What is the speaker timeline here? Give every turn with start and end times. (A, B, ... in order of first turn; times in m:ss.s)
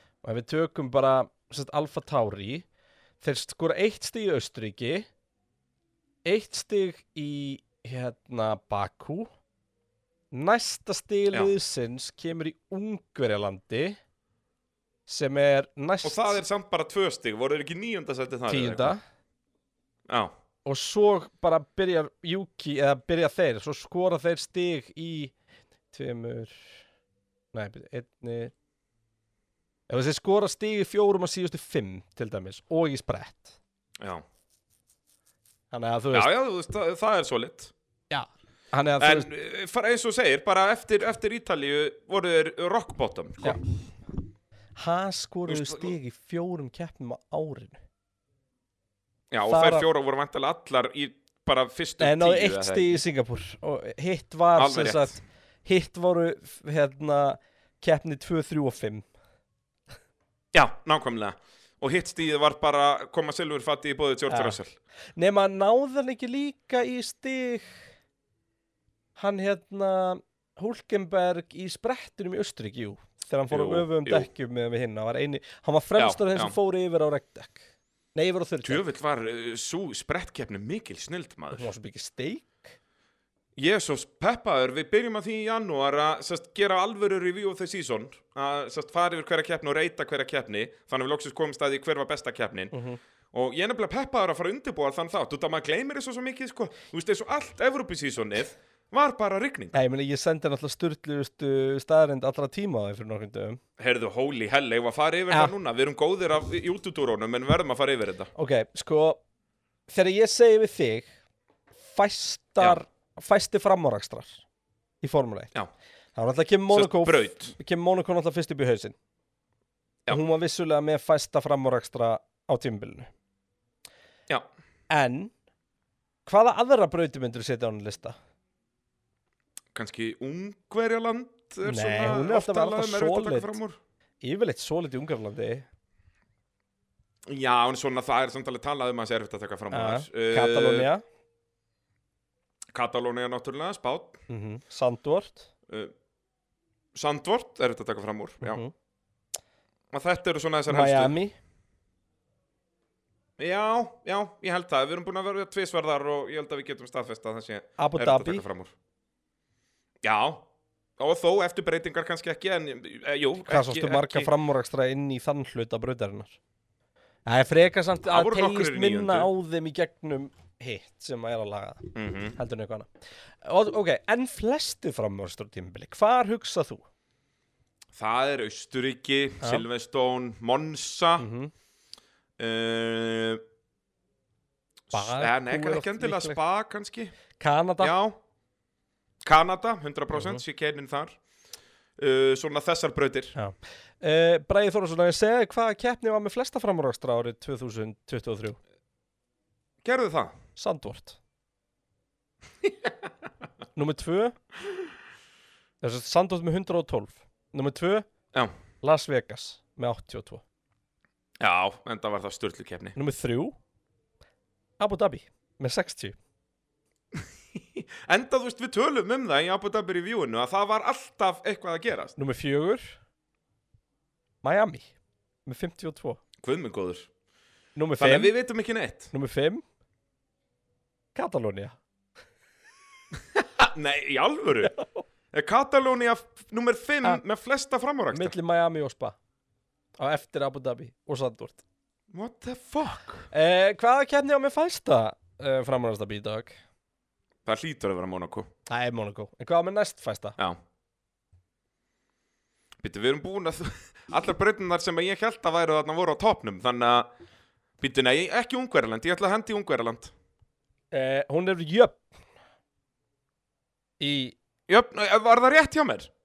0:00.2-0:02.6 A
0:03.2-0:05.1 A
0:06.2-0:09.3 A
0:10.3-0:14.0 A
0:15.1-0:16.4 A
0:16.0-0:18.9 B
0:18.5-0:19.0 A
0:20.1-0:20.3 B
0:20.6-0:25.3 A
0:25.9-0:26.8 A
0:27.5-0:28.5 A
0:29.9-0:33.6 A
0:34.0-0:34.2 B
0:35.7-0:36.3 A
0:36.1-0:37.7 B
0:38.1-0:39.3 A
0:39.0-0:43.6 B
0:44.8-0:47.8 A
0:45.5-0:45.9 B
0:49.3-0:53.0 B
0:49.5-0:49.9 A
0:52.0-0:59.0 A
0:54.6-0:55.2 B
1:00.5-1:04.7 B
1:04.3-1:04.6 A
1:05.2-1:07.7 A
1:09.2-1:18.8 A
1:13.5-1:14.3 B
1:16.0-1:16.5 B
1:18.6-1:21.7 B
1:21.5-1:22.7 A
1:23.6-1:32.7 B
1:32.7-1:33.0 A
1:33.3-1:39.7 B
1:39.7-1:43.6 A
1:43.8-1:48.3 B
1:48.4-1:49.2 A
1:49.9-1:51.1 A
1:51.9-1:54.4 A
1:55.0-1:55.5 A
1:56.2-1:58.9 A
1:56.7-1:57.5 B
2:00.1-2:03.1 A
2:04.9-2:05.3 A
2:06.2-2:08.2 A
2:09.7-2:13.8 B
2:11.6-2:13.6 A
2:14.2-2:15.7 A
2:17.3-2:20.9 B
2:19.7-2:21.0 A
2:22.7-2:24.2 B
2:24.3-2:25.5 A
2:26.9-2:28.6 B
2:28.4-2:28.7 A
2:29.9-2:31.1 B
2:30.7-2:31.3 A
2:33.4-2:38.7 B
2:37.8-2:38.4 A
2:40.0-2:40.4 B
2:41.0-2:44.3 B
2:43.5-2:46.4 A
2:47.2-2:52.9 A
2:48.1-2:49.3 B
2:51.9-2:52.4 B
2:53.4-2:56.8 A
2:57.9-3:01.2 B
2:59.4-2:59.6 A
3:01.2-3:01.5 A
3:02.4-3:03.4 B
3:04.9-3:07.1 B
3:04.9-3:06.4 A
3:07.4-3:07.9 A
3:07.8-3:08.2 B
3:09.2-3:11.2 B
3:10.1-3:10.4 A
3:12.0-3:13.3 B
3:13.4-3:18.6 A
3:19.8-3:20.4 B
3:20.6-3:21.2 A
3:23.8-3:24.4 A
3:25.8-3:28.1 A
3:28.8-3:30.4 A
3:31.4-3:33.0 B
3:33.0-3:33.5 A
3:34.8-3:36.2 A
3:37.1-3:42.2 B
3:42.2-3:43.0 A
3:44.4-3:44.9 A
3:45.4-3:46.2 A
3:46.4-3:47.1 B
3:47.8-3:48.3 A
3:48.0-3:49.1 B
3:49.1-3:49.6 A
3:51.1-3:51.8 A
3:53.3-3:54.7 B
3:55.3-3:58.3 B
3:58.1-3:59.2 A
4:00.0-4:01.6 A
4:02.1-4:03.3 B
4:03.3-4:06.6 A
4:07.4-4:08.5 B
4:08.7-4:10.4 A
4:12.8-4:17.1 B
4:17.8-4:20.1 B
4:20.9-4:22.0 A
4:24.0-4:24.3 A
4:24.7-4:26.1 B